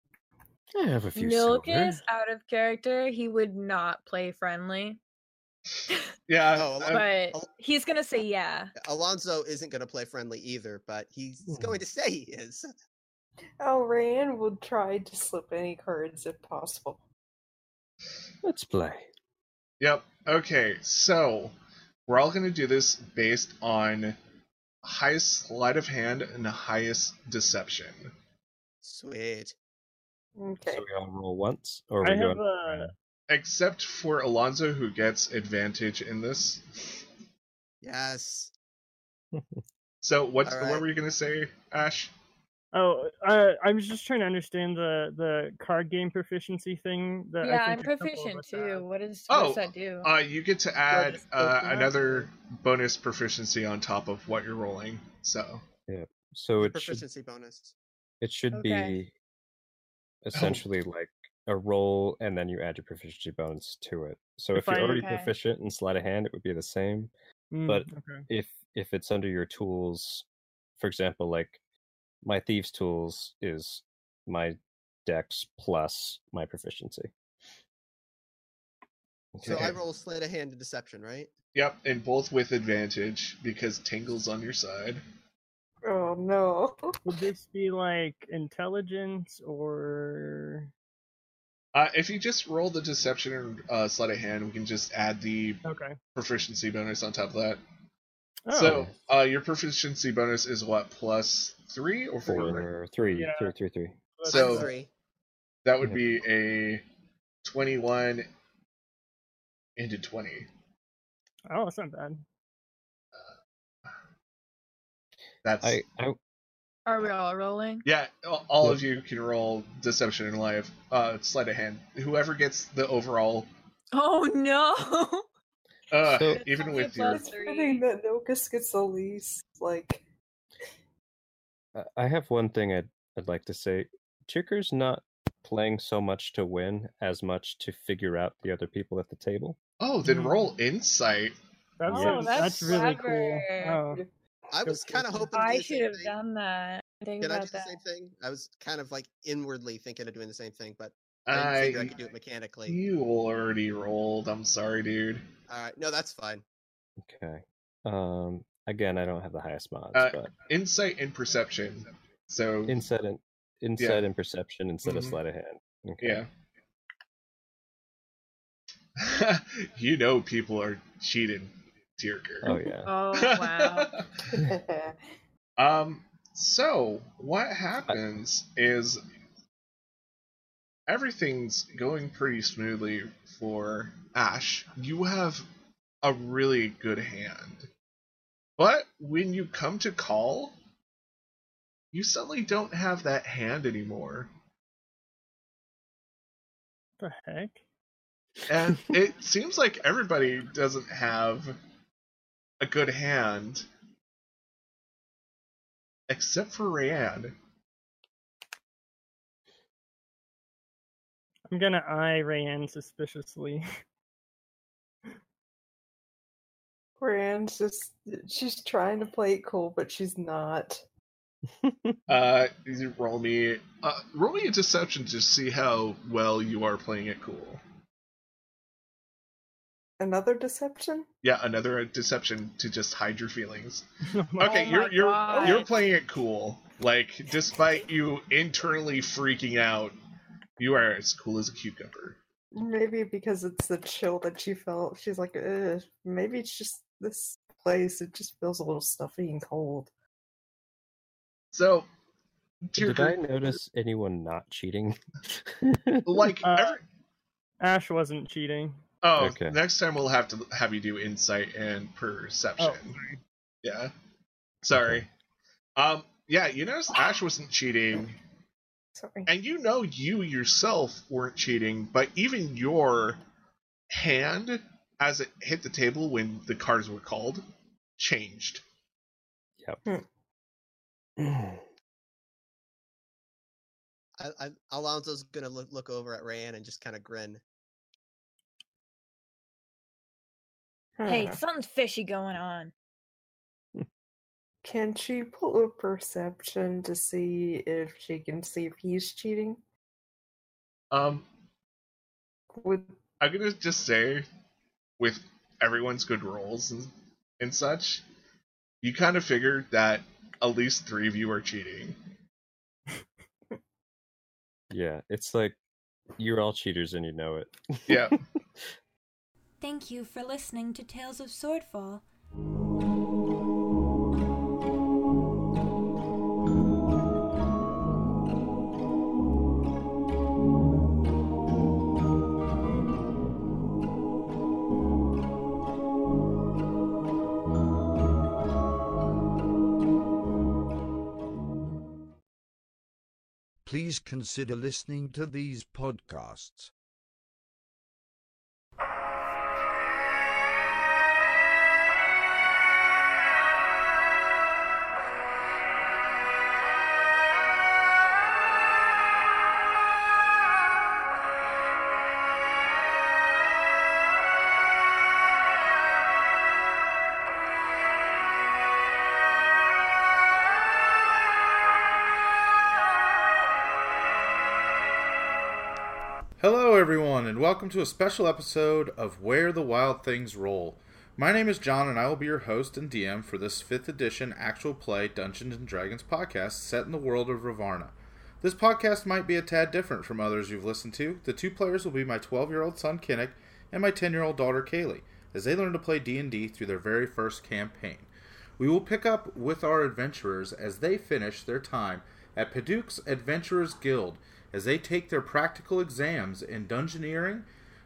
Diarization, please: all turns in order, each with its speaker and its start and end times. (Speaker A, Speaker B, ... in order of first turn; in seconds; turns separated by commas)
Speaker A: 0.8-2.0, Speaker B: 1.2-5.0, Speaker C: 6.3-7.0, Speaker D: 6.5-7.5, Speaker B: 6.9-8.7, Speaker D: 8.8-12.7, Speaker A: 11.5-11.8, Speaker E: 13.6-17.0, Speaker A: 18.4-19.1, Speaker C: 19.8-21.6, Speaker C: 22.1-24.2, Speaker C: 24.8-28.1, Speaker D: 28.8-29.6, Speaker E: 30.4-30.8, Speaker A: 30.7-32.9, Speaker F: 32.0-32.9, Speaker C: 33.3-37.1, Speaker D: 37.8-38.5, Speaker A: 39.3-39.6, Speaker C: 40.0-42.1, Speaker D: 40.5-40.8, Speaker F: 42.7-48.9, Speaker B: 47.4-50.1, Speaker C: 49.3-55.6, Speaker E: 50.9-52.3, Speaker A: 55.9-57.0, Speaker D: 56.6-57.8, Speaker A: 58.2-59.1, Speaker B: 58.5-59.0, Speaker A: 60.2-67.1, Speaker C: 60.3-60.6, Speaker F: 64.5-65.1, Speaker B: 65.0-65.3, Speaker F: 67.5-68.3, Speaker A: 67.7-70.2, Speaker A: 70.8-71.6, Speaker A: 72.2-77.1, Speaker A: 79.3-79.8, Speaker D: 79.4-81.3, Speaker C: 81.5-85.0, Speaker E: 85.8-87.2, Speaker F: 87.0-90.7, Speaker C: 91.8-95.6, Speaker F: 95.6-96.0, Speaker C: 96.2-97.6, Speaker F: 98.5-98.8, Speaker C: 98.5-102.7, Speaker A: 98.7-99.0, Speaker A: 102.2-104.0, Speaker F: 103.2-103.5, Speaker F: 104.2-104.7, Speaker D: 104.3-104.9, Speaker C: 104.3-104.7, Speaker C: 105.7-106.8, Speaker C: 107.4-108.3, Speaker C: 109.8-110.5, Speaker F: 111.5-112.2, Speaker C: 115.4-115.8, Speaker A: 115.6-116.2, Speaker B: 116.9-117.8, Speaker C: 117.8-123.5, Speaker B: 123.9-125.2, Speaker C: 125.9-127.2, Speaker A: 126.0-126.4, Speaker B: 126.2-127.8, Speaker E: 127.1-130.0, Speaker A: 131.8-139.6, Speaker C: 139.8-141.4, Speaker F: 140.0-140.5, Speaker F: 141.8-144.0, Speaker A: 141.9-142.7, Speaker B: 141.9-143.8, Speaker D: 144.5-146.1, Speaker B: 145.3-147.8, Speaker D: 147.2-152.8, Speaker C: 151.3-151.9, Speaker C: 152.7-155.2, Speaker D: 155.5-156.4, Speaker A: 157.0-160.3, Speaker C: 159.9-162.8, Speaker A: 162.7-166.2, Speaker C: 163.8-164.0, Speaker C: 164.8-165.2, Speaker C: 166.0-166.3, Speaker C: 169.0-174.2, Speaker A: 172.4-172.9, Speaker B: 172.9-173.9, Speaker E: 174.3-175.0, Speaker C: 175.6-179.0, Speaker C: 180.9-185.5, Speaker C: 186.0-187.7, Speaker C: 188.6-190.6, Speaker C: 191.9-194.3, Speaker F: 197.0-197.6, Speaker C: 198.5-201.6, Speaker C: 202.6-203.7, Speaker C: 206.1-207.3, Speaker F: 211.5-213.6, Speaker E: 217.0-220.8, Speaker A: 221.6-222.0, Speaker C: 222.1-227.6, Speaker E: 230.0-231.1, Speaker C: 231.2-233.9, Speaker F: 234.1-234.9, Speaker C: 234.4-240.0, Speaker B: 234.4-235.7, Speaker E: 235.3-235.7, Speaker C: 240.6-242.2, Speaker E: 242.5-249.9, Speaker C: 251.5-251.9, Speaker C: 252.7-253.6, Speaker A: 252.8-256.3, Speaker C: 256.1-256.8, Speaker F: 256.4-256.8, Speaker F: 257.6-258.8, Speaker C: 259.0-263.0, Speaker A: 259.2-259.6, Speaker F: 262.6-263.2, Speaker C: 263.6-263.9, Speaker C: 264.6-265.1, Speaker A: 264.7-265.0, Speaker C: 265.8-268.2, Speaker E: 268.9-269.3, Speaker C: 269.3-273.2, Speaker C: 273.9-277.4, Speaker C: 278.0-278.6, Speaker A: 281.2-281.6, Speaker D: 284.2-287.4, Speaker E: 291.0-291.4, Speaker B: 291.1-292.7, Speaker E: 294.6-299.6, Speaker C: 300.9-301.3, Speaker E: 302.6-303.0, Speaker C: 303.2-304.3, Speaker C: 305.0-308.1, Speaker C: 308.8-312.0, Speaker A: 314.7-315.6, Speaker A: 316.2-318.6, Speaker C: 317.9-318.2, Speaker G: 319.6-322.1, Speaker H: 343.6-346.7, Speaker I: 376.4-407.5